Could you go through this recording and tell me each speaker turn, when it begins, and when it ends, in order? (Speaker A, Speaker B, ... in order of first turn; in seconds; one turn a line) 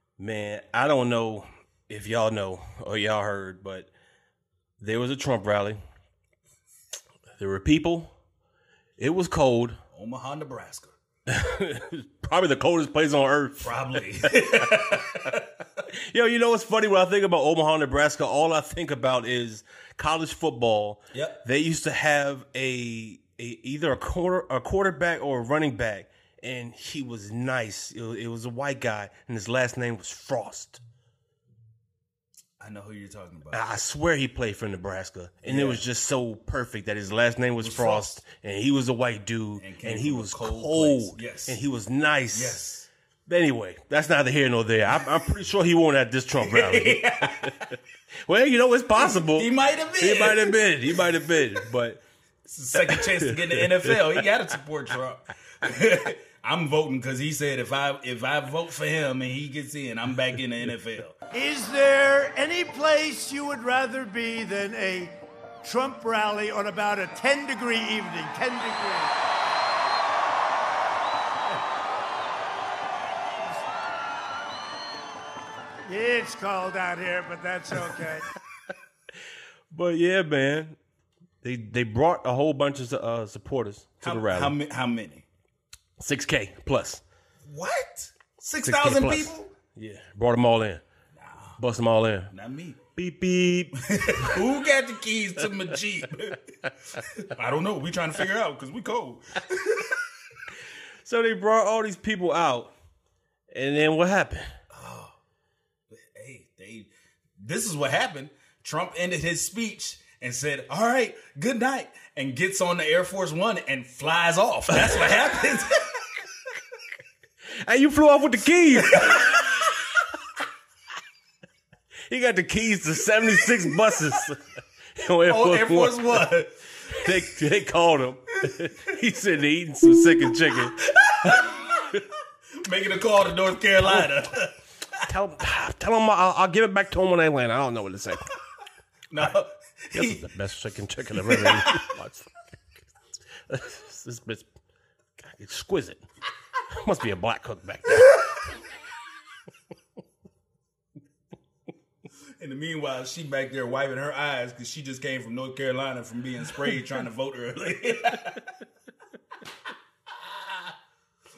Speaker A: 0.2-3.9
Speaker A: 4.8-5.8
Speaker A: 7.4-8.1
Speaker A: 9.0-9.8
Speaker B: 9.9-10.9
Speaker A: 11.3-15.0
Speaker B: 13.6-15.5
Speaker A: 15.9-30.8
Speaker B: 21.1-21.4
Speaker B: 32.6-33.6
Speaker A: 33.5-42.6
Speaker B: 35.5-35.8
Speaker B: 37.6-38.2
Speaker B: 39.6-41.6
Speaker B: 42.3-42.9
Speaker A: 43.3-47.7
Speaker B: 46.4-47.8
Speaker A: 48.3-52.0
Speaker B: 49.0-51.6
Speaker B: 52.5-61.2
Speaker A: 52.8-54.2
Speaker C: 61.3-69.1
Speaker C: 75.8-78.3
Speaker A: 79.7-80.8
Speaker A: 81.4-84.6
Speaker B: 84.0-85.3
Speaker A: 86.0-87.0
Speaker B: 87.5-89.5
Speaker A: 88.6-90.8
Speaker B: 91.2-91.6
Speaker A: 91.6-92.3
Speaker B: 92.3-92.8
Speaker A: 93.0-94.5
Speaker B: 93.8-100.1
Speaker A: 101.0-102.7
Speaker A: 103.5-104.5
Speaker B: 104.7-105.2
Speaker B: 105.9-116.1
Speaker A: 114.8-115.2
Speaker A: 117.6-119.8
Speaker B: 118.8-119.7
Speaker A: 122.1-126.3
Speaker B: 125.3-127.3
Speaker A: 126.9-132.0
Speaker B: 128.5-128.7
Speaker B: 130.4-132.0
Speaker B: 132.6-135.1
Speaker A: 133.8-134.1
Speaker A: 135.1-138.3
Speaker B: 139.1-140.3
Speaker A: 139.9-142.5
Speaker B: 141.2-141.8
Speaker A: 143.5-144.5
Speaker A: 145.2-146.0
Speaker A: 146.7-148.6
Speaker B: 152.4-158.5
Speaker B: 160.2-160.6